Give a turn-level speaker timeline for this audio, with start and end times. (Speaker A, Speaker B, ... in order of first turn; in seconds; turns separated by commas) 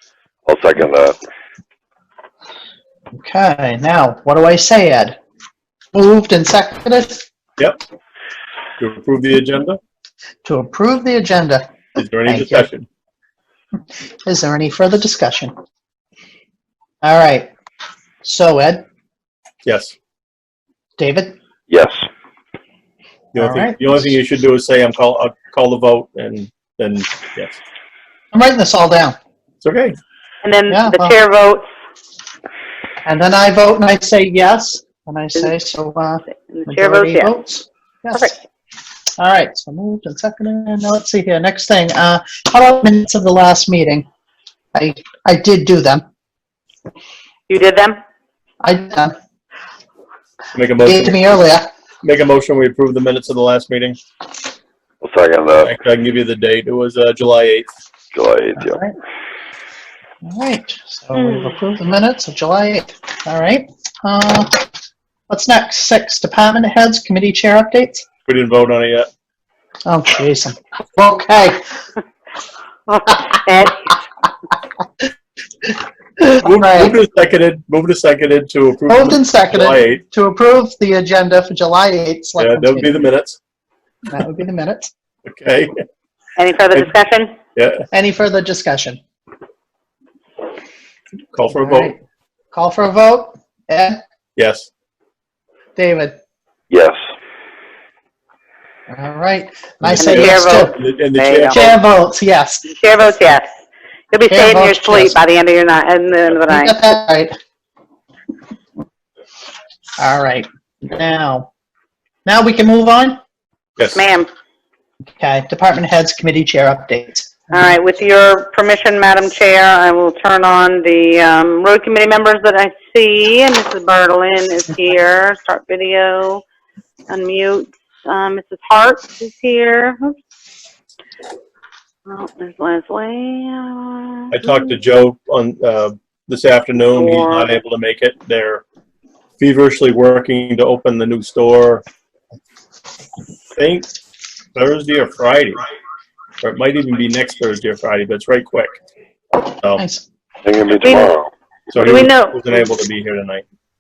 Speaker A: 0.5-1.2, Speaker B: 3.1-5.2, Speaker B: 5.9-7.2, Speaker C: 8.8-9.8, Speaker B: 10.4-12.7, Speaker C: 12.0-12.9, Speaker B: 14.2-15.5, Speaker B: 17.0-17.5, Speaker B: 18.2-18.9, Speaker C: 19.6-19.9, Speaker B: 21.0-21.4, Speaker A: 21.7-22.1, Speaker C: 23.3-27.6, Speaker B: 23.4-24.1, Speaker B: 28.3-29.2, Speaker C: 29.6-30.0, Speaker D: 30.4-31.6, Speaker B: 30.7-31.2, Speaker B: 33.0-38.4, Speaker D: 36.5-37.3, Speaker B: 39.2-44.1, Speaker B: 44.7-46.0, Speaker D: 47.5-48.0, Speaker B: 48.6-49.1, Speaker C: 50.5-51.3, Speaker B: 50.8-51.7, Speaker C: 52.0-54.0, Speaker A: 55.0-55.7, Speaker C: 55.6-57.7, Speaker A: 58.1-58.8, Speaker B: 58.6-58.9, Speaker B: 60.2-64.7, Speaker B: 65.3-68.0, Speaker C: 68.3-69.1, Speaker B: 69.9-71.6, Speaker D: 72.9-73.8, Speaker B: 75.6-77.0, Speaker C: 76.4-80.0, Speaker B: 78.9-83.0, Speaker C: 82.4-83.4, Speaker B: 84.1-84.9, Speaker C: 85.3-85.7, Speaker D: 86.4-87.4, Speaker C: 87.6-87.8, Speaker B: 87.9-89.0, Speaker C: 91.3-91.9, Speaker B: 91.3-92.0, Speaker B: 92.5-94.0, Speaker C: 94.4-94.7, Speaker B: 95.8-96.2, Speaker A: 96.7-97.0, Speaker B: 98.9-100.7, Speaker C: 99.8-101.8, Speaker D: 100.0-101.6, Speaker B: 101.5-102.7, Speaker D: 102.7-103.5, Speaker D: 104.1-106.7, Speaker B: 104.3-105.2, Speaker B: 106.4-107.3, Speaker B: 110.0-111.5, Speaker B: 112.3-113.2, Speaker D: 114.0-114.3, Speaker B: 115.2-117.7, Speaker D: 117.5-126.4, Speaker D: 127.1-130.2, Speaker D: 132.1-134.6, Speaker C: 134.3-138.6, Speaker D: 136.9-137.6, Speaker C: 139.4-141.8, Speaker C: 143.6-143.9, Speaker C: 144.6-145.6, Speaker C: 146.4-148.7, Speaker C: 149.6-149.8, Speaker B: 149.8-150.1, Speaker A: 150.4-151.3, Speaker D: 150.8-151.1, Speaker C: 151.7-153.4, Speaker D: 151.8-152.4